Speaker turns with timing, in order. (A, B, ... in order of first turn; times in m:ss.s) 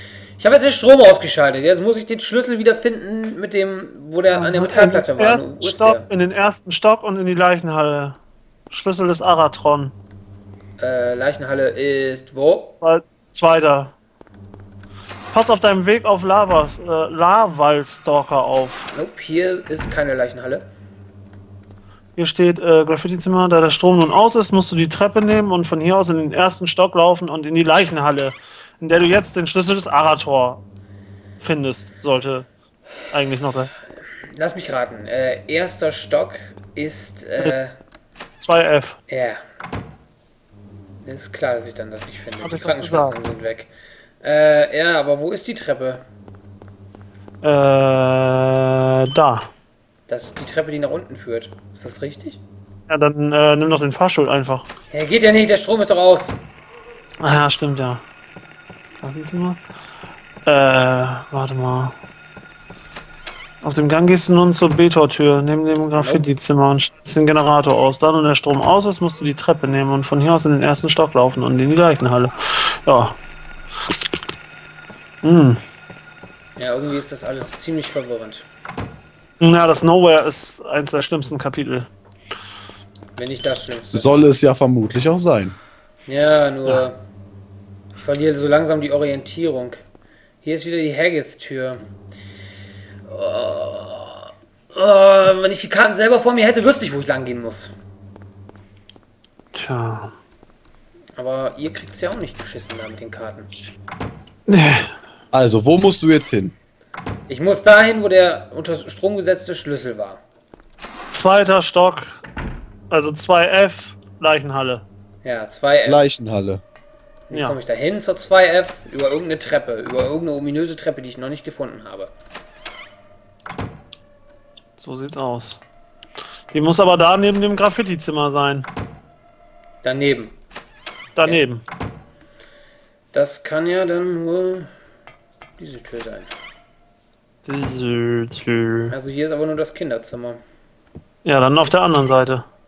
0:00.4-0:06.0 A
0:04.3-0:08.2 B
0:08.7-0:10.0 B
0:10.8-0:12.8 A
0:12.8-0:13.9 B
0:15.3-0:18.9 B
0:18.9-0:20.7 A
0:22.2-0:30.6 B
0:31.4-0:32.5 B
0:33.1-0:33.7 B
0:34.3-0:37.7 A
0:38.4-0:39.0 B
0:39.1-0:39.4 A
0:41.0-0:43.7 A
0:42.4-0:43.2 B
0:44.2-0:46.0 A
0:47.4-0:49.5 B
0:50.1-0:52.4 A
0:52.9-0:54.7 B
0:54.9-0:56.4 A
0:57.2-0:58.0 B
0:59.0-0:59.6 B
1:00.5-1:02.0 B
1:03.6-1:13.2 B
1:06.0-1:06.2 A
1:15.2-1:15.6 B
1:16.6-1:18.5 A
1:19.4-1:21.9 B
1:23.2-1:24.1 A
1:23.9-1:25.6 C
1:26.1-1:27.0 A
1:27.9-1:29.8 A
1:30.4-1:31.8 A
1:33.1-1:37.7 A
1:39.5-1:40.2 B
1:41.2-1:43.5 A
1:44.5-1:45.0 B
1:45.3-1:46.6 C
1:47.3-1:50.2 A
1:51.1-1:52.2 B
1:52.9-1:54.8 B
1:55.2-1:56.0 A
1:55.9-1:56.6 C
1:57.3-2:02.1 A
2:04.8-2:05.6 B
2:06.5-2:08.7 B
2:09.8-2:10.3 A
2:11.2-2:11.6 B
2:13.1-2:14.7 A
2:15.6-2:16.3 A
2:17.4-2:19.0 B
2:18.9-2:20.4 A
2:21.2-2:22.5 B